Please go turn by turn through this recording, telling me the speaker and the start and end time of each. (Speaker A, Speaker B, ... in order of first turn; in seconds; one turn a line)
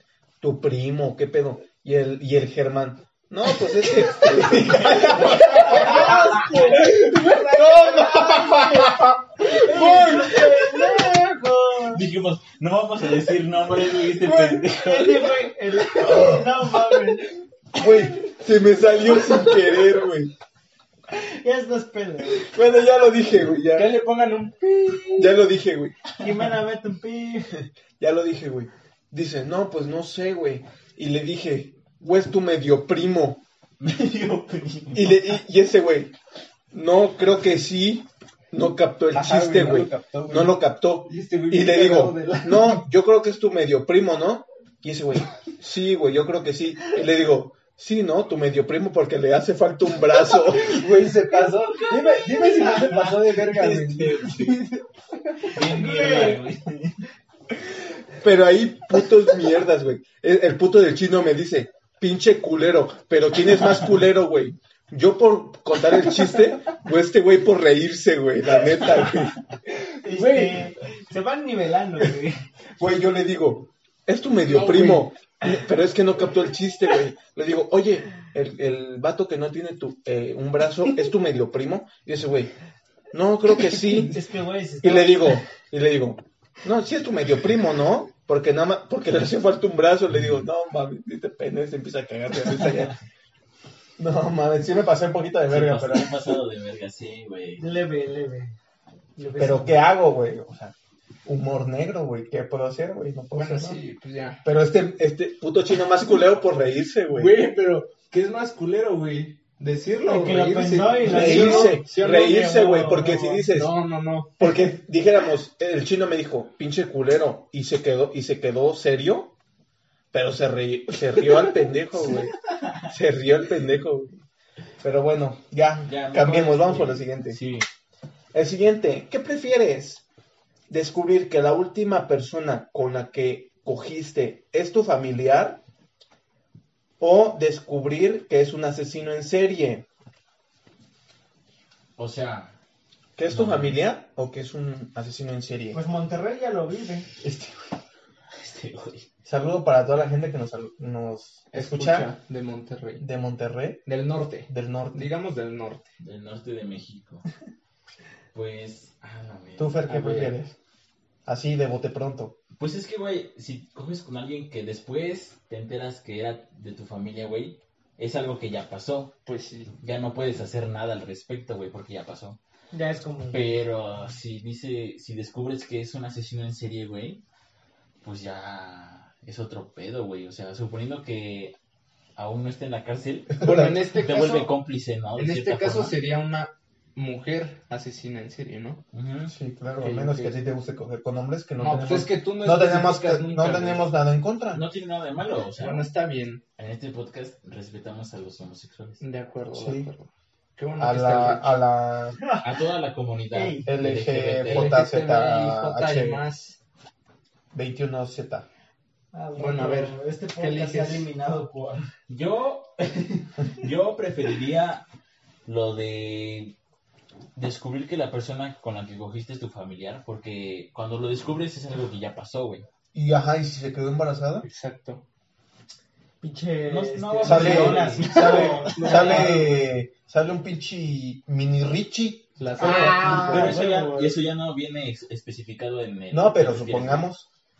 Speaker A: 0.4-11.2
Speaker B: 4.3-6.2
Speaker C: 4.9-12.1
Speaker D: 6.8-7.2
Speaker B: 11.9-15.4
Speaker A: 14.2-14.8
Speaker C: 14.8-17.3
Speaker A: 16.0-16.5
Speaker A: 17.8-20.3
Speaker C: 21.1-22.5
Speaker A: 22.3-23.9
Speaker D: 23.7-25.4
Speaker A: 25.2-26.0
Speaker C: 26.2-27.6
Speaker A: 28.0-33.4
Speaker B: 33.8-35.3
Speaker A: 34.9-36.1
Speaker A: 36.7-50.9
Speaker D: 39.1-42.9
Speaker D: 50.6-54.6
Speaker A: 52.7-54.6
Speaker B: 54.2-54.6
Speaker B: 55.4-57.0
Speaker C: 55.5-56.4
Speaker A: 58.2-69.4
Speaker D: 69.7-70.7
Speaker C: 70.0-72.4
Speaker A: 72.8-82.5
Speaker D: 74.4-75.1
Speaker A: 83.1-84.2
Speaker C: 83.9-85.4
Speaker A: 84.8-93.0
Speaker A: 94.0-96.4
Speaker B: 95.5-97.7
Speaker C: 97.6-98.5
Speaker C: 99.2-99.8
Speaker A: 99.4-100.7
Speaker A: 101.2-103.8
Speaker D: 103.3-104.5
Speaker A: 104.4-107.3
Speaker D: 107.1-112.5
Speaker C: 110.0-113.4
Speaker A: 111.0-113.7
Speaker D: 113.5-114.5
Speaker A: 114.4-119.3
Speaker A: 120.1-122.3
Speaker B: 122.1-122.8
Speaker A: 122.9-124.2
Speaker A: 124.8-127.4
Speaker B: 125.8-127.7
Speaker A: 128.3-130.0
Speaker A: 130.7-135.6
Speaker A: 137.0-139.9
Speaker B: 142.0-142.6
Speaker A: 143.2-145.8
Speaker B: 143.3-143.8
Speaker C: 145.7-147.1
Speaker A: 147.2-147.6
Speaker B: 148.3-149.1
Speaker A: 149.3-152.1
Speaker D: 151.5-153.1
Speaker A: 153.0-153.8
Speaker D: 153.9-155.9
Speaker A: 154.5-155.1
Speaker B: 156.0-157.2
Speaker B: 158.3-159.8
Speaker A: 159.6-160.6
Speaker D: 159.9-160.4
Speaker A: 161.3-162.4
Speaker B: 162.6-169.2
Speaker D: 169.2-169.7
Speaker B: 169.8-172.4
Speaker C: 172.7-173.5
Speaker B: 173.3-177.2
Speaker B: 178.0-181.6
Speaker B: 182.2-186.0
Speaker A: 183.4-183.7
Speaker D: 183.4-184.5
Speaker D: 185.2-188.8
Speaker B: 188.9-189.3
Speaker A: 189.3-194.6
Speaker D: 189.8-190.4
Speaker D: 191.6-193.9
Speaker B: 194.5-195.9
Speaker D: 195.6-196.4
Speaker B: 196.6-199.0
Speaker D: 199.0-201.6
Speaker A: 199.5-199.9
Speaker A: 200.8-202.2
Speaker B: 202.4-204.8
Speaker C: 203.3-203.7
Speaker A: 203.7-206.2
Speaker D: 204.4-206.6
Speaker A: 207.5-208.5
Speaker C: 209.1-211.9
Speaker D: 209.4-211.1
Speaker B: 212.1-214.8
Speaker B: 215.4-216.6
Speaker B: 217.3-222.7
Speaker A: 222.9-224.5
Speaker D: 224.4-225.0
Speaker C: 226.2-229.5
Speaker B: 226.6-229.0
Speaker A: 227.2-233.3
Speaker D: 228.6-229.5
Speaker D: 232.4-233.7
Speaker C: 232.6-234.2
Speaker B: 232.7-237.1
Speaker A: 236.1-237.2